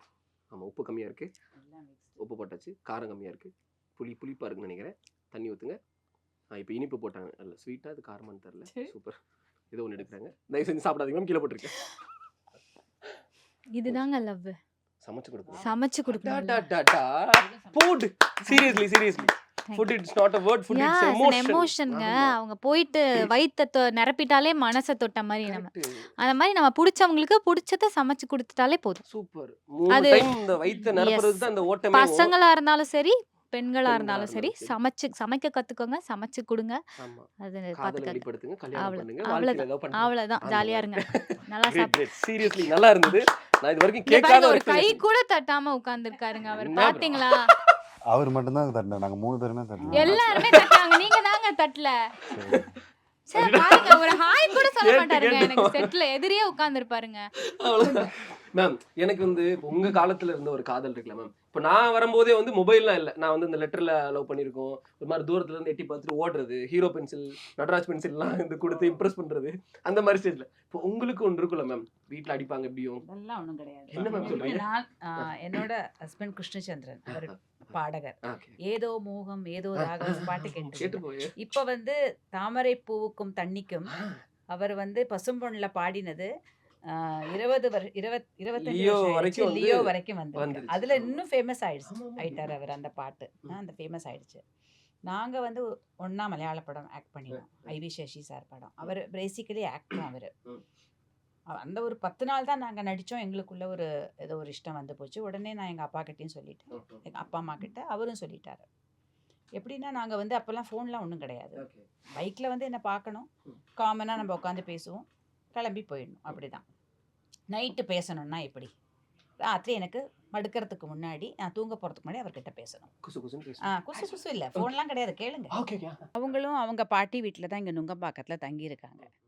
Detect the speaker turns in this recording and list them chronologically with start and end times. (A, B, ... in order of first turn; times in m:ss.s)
0:00.5-0:01.3 A
0:01.6-0:02.2 B
0:02.2-0:05.8 A
0:06.5-0:09.2 A
0:09.7-0:11.8 A
0:13.7-0:14.6 C
0:15.0-0:22.3 A
0:15.4-0:15.7 B
0:15.6-0:16.6 C
0:17.3-0:17.9 B
0:18.5-0:18.8 C
0:20.7-0:25.7 C
0:25.4-0:26.1 A
0:26.2-0:29.0 C
0:29.1-0:32.3 A
0:29.9-0:36.8 C
0:33.8-0:34.7 A
0:37.0-0:45.0 A
0:37.4-0:38.2 C
0:38.8-0:43.2 C
0:44.1-0:47.4 C
0:46.4-0:47.3 A
0:48.1-0:50.6 D
0:49.8-0:50.1 B
0:49.9-0:51.9 C
0:50.1-0:50.7 A
0:52.3-0:52.7 D
0:53.3-0:57.3 C
0:53.3-0:55.9 A
0:57.6-1:13.0 A
0:57.9-0:58.1 C
1:13.0-1:23.9 B
1:13.9-1:14.7 A
1:18.2-1:18.6 A
1:19.8-1:21.3 A
1:23.9-1:24.2 A
1:24.5-1:26.3 B
1:26.9-1:34.4 B
1:28.6-1:31.2 A
1:31.9-1:32.4 A
1:35.1-1:40.3 B
1:37.3-1:37.7 A
1:41.5-1:48.6 B
1:46.7-1:47.0 A
1:49.5-1:51.6 B
1:51.6-1:51.8 A
1:52.2-1:56.6 B
1:57.5-1:58.7 B
1:59.4-2:02.9 B
2:03.0-2:04.7 A
2:03.6-2:05.5 B
2:05.5-2:06.0 A
2:06.1-2:09.1 B